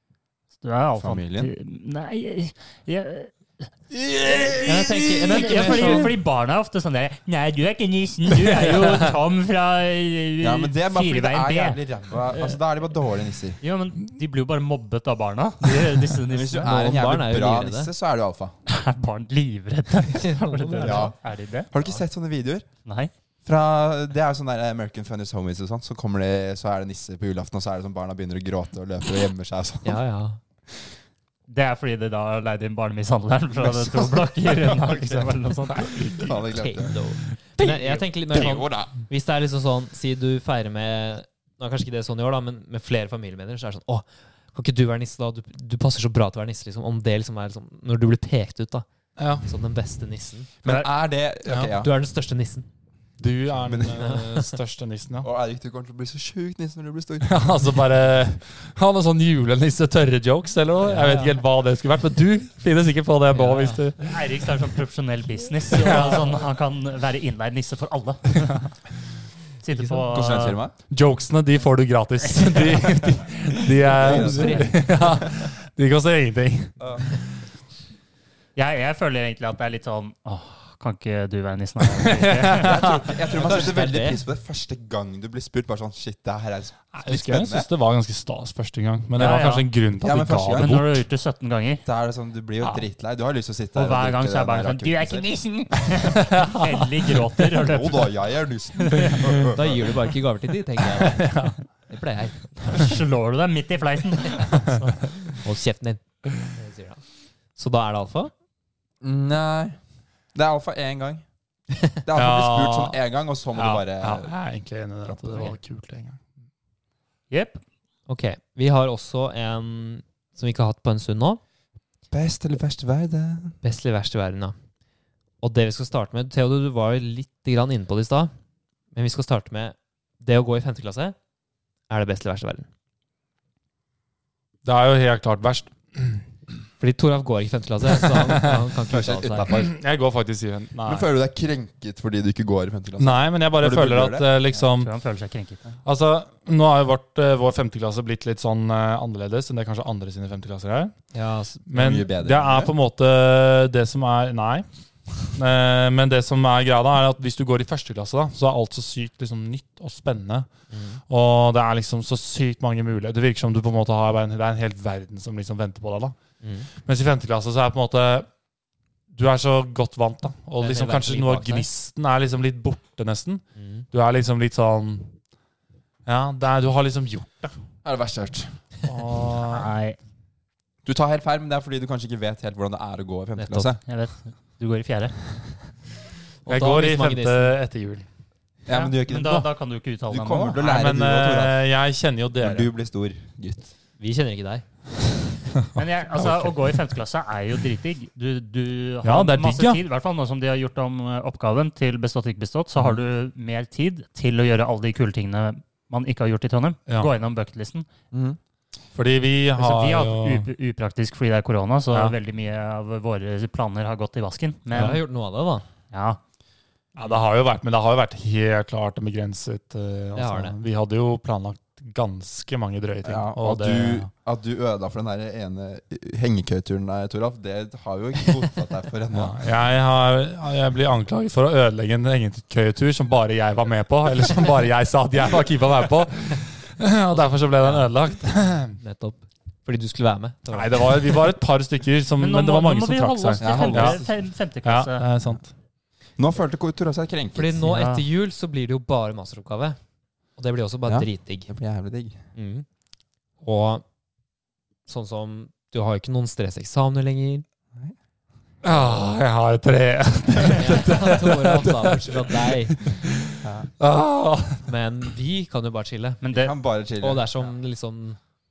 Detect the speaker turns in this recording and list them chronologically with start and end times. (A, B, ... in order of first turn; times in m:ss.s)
0:00.6-0:03.6 A
0:01.0-0:01.5 B
0:03.9-0:06.1 C
0:04.4-0:11.8 A
0:04.6-0:06.1 D
0:08.4-0:09.1 C
0:10.4-0:13.6 B
0:13.6-0:16.7 A
0:16.3-0:18.5 B
0:16.6-0:17.9 D
0:18.7-0:22.0 A
0:20.1-0:21.1 D
0:20.8-0:21.2 B
0:21.7-0:22.7 B
0:22.8-0:23.1 A
0:23.4-0:30.0 B
0:29.8-0:30.4 D
0:31.5-0:36.3 A
0:33.6-0:35.3 B
0:35.7-0:36.4 C
0:36.2-0:37.0 B
0:36.5-0:48.8 D
0:37.6-0:38.9 B
0:49.2-0:49.4 C
0:49.4-0:50.5 D
0:50.6-0:51.9 B
0:51.4-0:51.7 C
0:51.7-0:52.7 D
0:53.2-0:55.3 C
0:53.6-0:54.2 B
0:54.0-0:54.5 D
0:55.2-0:57.5 B
0:57.2-1:04.0 C
1:00.8-1:01.4 D
1:03.3-1:03.8 D
1:04.0-1:08.7 A
1:05.7-1:06.4 C
1:09.6-1:10.6 A
1:10.1-1:10.7 B
1:10.9-1:16.9 C
1:12.4-1:12.7 A
1:13.8-1:15.1 B
1:14.0-1:15.0 D
1:18.6-1:23.0 A
1:21.9-1:23.0 C
1:22.5-1:27.7 B
1:23.3-1:24.2 D
1:26.9-1:31.0 C
1:29.2-1:29.7 A
1:30.0-1:30.7 B
1:30.5-1:31.8 A
1:31.8-1:35.2 B
1:33.7-1:38.2 A
1:36.3-1:36.7 C
1:37.6-1:39.9 B
1:38.8-1:39.2 A
1:39.0-1:39.3 C
1:39.5-1:41.2 D
1:41.0-1:41.6 C
1:41.9-1:42.9 D
1:42.7-1:45.1 A
1:45.4-1:47.0 D
1:47.5-1:48.3 D
1:49.0-1:49.8 B
1:50.3-1:51.2 B
1:52.0-1:54.3 B
1:52.2-1:53.0 C
1:53.5-1:56.2 C
1:55.0-1:55.6 B
1:57.3-1:57.6 A
1:58.1-2:01.4 D
2:02.1-2:03.6 B
2:03.6-2:04.5 D
2:05.4-2:08.3 D
2:08.9-2:11.2 D
2:11.9-2:12.7 D
2:14.6-2:16.2 C
2:16.8-2:19.5 D
2:18.2-2:18.6 C
2:18.9-2:19.7 B
2:19.5-2:21.1 C
2:20.8-2:24.3 B
2:23.0-2:24.9 C
2:24.5-2:25.6 A
2:25.8-2:31.0 C
2:31.1-2:31.6 D
2:31.7-2:34.6 C
2:31.7-2:32.7 B
2:35.2-2:40.5 C
2:40.7-2:41.0 D
2:41.1-2:46.2 C
2:46.4-2:46.7 D
2:46.8-2:48.3 C
2:49.1-2:55.1 C
2:50.6-2:51.7 D
2:53.6-2:53.8 D
2:56.0-2:57.5 C
2:57.8-2:58.5 B
2:58.9-2:59.6 C
2:59.4-3:00.0 A
3:00.8-3:03.8 B
3:03.4-3:03.7 D
3:03.8-3:05.2 A
3:06.4-3:07.5 D
3:06.4-3:08.0 C
3:08.6-3:09.5 B
3:08.7-3:10.6 A
3:10.1-3:11.6 B
3:10.6-3:12.7 C
3:12.4-3:13.7 B
3:14.0-3:14.6 D
3:15.8-3:27.9 A
3:16.1-3:16.5 C
3:19.0-3:19.8 C
3:28.1-3:28.4 B
3:28.9-3:30.5 C
3:29.6-3:35.0 A
3:34.7-3:35.6 D
3:35.9-3:36.2 A
3:37.0-3:44.1 C
3:40.1-3:40.5 D
3:43.0-3:49.4 B
3:49.1-3:58.8 C
3:57.1-3:57.9 D
3:58.8-4:01.2 D
4:00.5-4:04.0 C
4:02.2-4:05.0 A
4:03.4-4:04.1 B
4:04.6-4:05.5 C
4:06.2-4:07.7 B
4:07.3-4:09.8 D
4:07.6-4:08.0 A
4:10.4-4:11.5 D
4:10.8-4:12.2 B
4:12.3-4:12.6 D
4:13.4-4:13.8 D
4:14.9-4:17.4 D
4:18.6-4:24.7 C
4:20.5-4:22.8 D
4:23.4-4:23.7 B
4:24.6-4:26.2 D
4:26.2-4:26.5 A
4:26.3-4:27.3 B
4:27.0-4:28.2 D